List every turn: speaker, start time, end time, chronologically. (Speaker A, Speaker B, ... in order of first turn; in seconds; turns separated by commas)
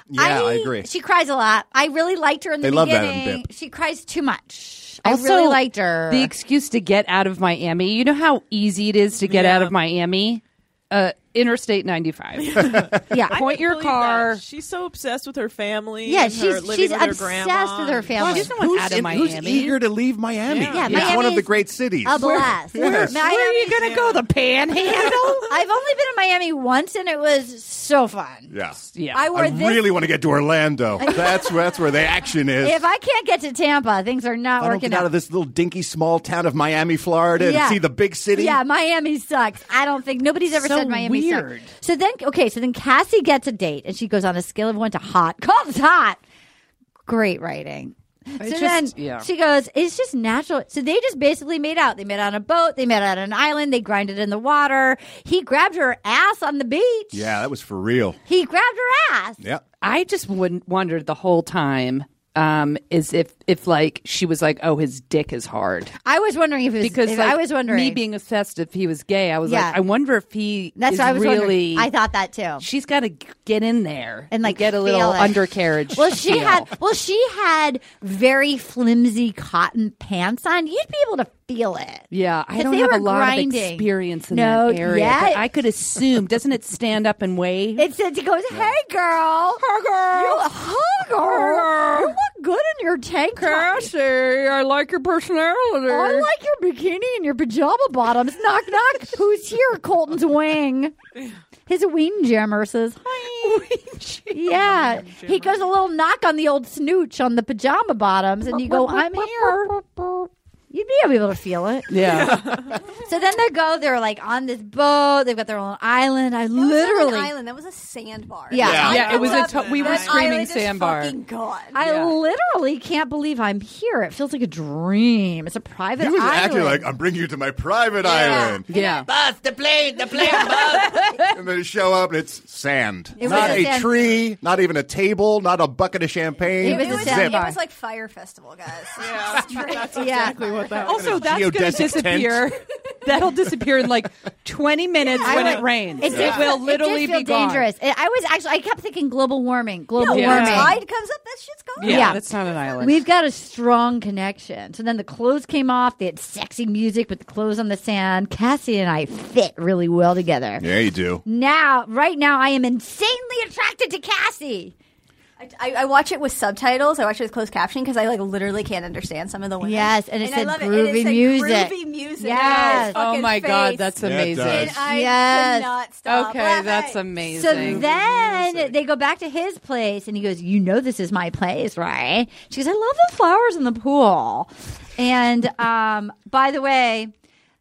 Speaker A: 0.1-0.9, Speaker B: 0.1-6.3, Speaker A: 2.6-3.4, Speaker C: 5.0-12.8, Speaker D: 9.2-9.8, Speaker D: 12.4-18.1, Speaker B: 13.1-13.4, Speaker C: 13.3-14.4, Speaker B: 16.1-18.5, Speaker A: 18.1-23.2, Speaker C: 18.3-19.8, Speaker D: 20.5-20.9, Speaker B: 20.7-23.9, Speaker C: 20.8-21.3, Speaker C: 22.1-25.5, Speaker D: 23.8-24.2, Speaker B: 25.4-28.5, Speaker A: 28.5-28.8, Speaker C: 28.9-29.3, Speaker B: 29.1-29.9, Speaker A: 29.3-32.8, Speaker B: 31.0-31.6, Speaker B: 32.6-35.1, Speaker A: 34.6-38.6, Speaker B: 37.4-46.2, Speaker C: 40.5-41.7, Speaker B: 47.1-57.3, Speaker C: 48.4-49.3, Speaker A: 57.1-58.2, Speaker B: 58.3-59.4, Speaker C: 59.8-65.9, Speaker B: 66.0-68.0, Speaker C: 66.8-71.9, Speaker B: 69.5-69.8, Speaker B: 70.8-72.7, Speaker C: 72.6-76.7, Speaker B: 74.3-85.4, Speaker C: 82.1-87.9, Speaker B: 87.8-93.9, Speaker C: 89.6-90.5, Speaker C: 91.1-92.2, Speaker C: 93.4-96.3, Speaker B: 95.9-100.9, Speaker B: 101.7-103.7, Speaker C: 103.4-105.0, Speaker B: 104.3-110.0, Speaker D: 105.0-105.6, Speaker C: 108.5-109.8, Speaker B: 110.7-117.4, Speaker C: 111.9-112.5, Speaker D: 112.2-112.8, Speaker E: 116.5-121.8, Speaker B: 118.5-119.4, Speaker A: 118.6-119.2, Speaker C: 118.8-121.2, Speaker D: 119.4-120.2, Speaker B: 121.7-126.9, Speaker C: 121.8-122.1, Speaker A: 126.0-137.4, Speaker E: 128.0-129.0, Speaker B: 128.1-128.6, Speaker C: 128.7-129.1, Speaker C: 130.3-131.3, Speaker B: 133.2-134.2, Speaker C: 133.3-133.7, Speaker E: 136.5-141.2, Speaker B: 136.6-137.6, Speaker D: 139.0-140.7, Speaker B: 139.9-140.4, Speaker A: 140.5-142.5, Speaker C: 140.8-147.7, Speaker E: 145.2-145.6, Speaker B: 145.2-150.8, Speaker A: 146.1-146.4, Speaker E: 150.0-152.2, Speaker C: 150.1-150.8, Speaker C: 151.8-153.0, Speaker B: 151.8-152.2, Speaker B: 152.8-160.7, Speaker A: 160.6-161.2, Speaker B: 161.2-164.7, Speaker E: 165.4-174.0, Speaker B: 169.6-173.0, Speaker C: 172.3-174.8, Speaker A: 174.0-174.9, Speaker E: 174.5-178.2, Speaker B: 174.8-175.7, Speaker C: 176.1-177.9, Speaker B: 177.3-187.1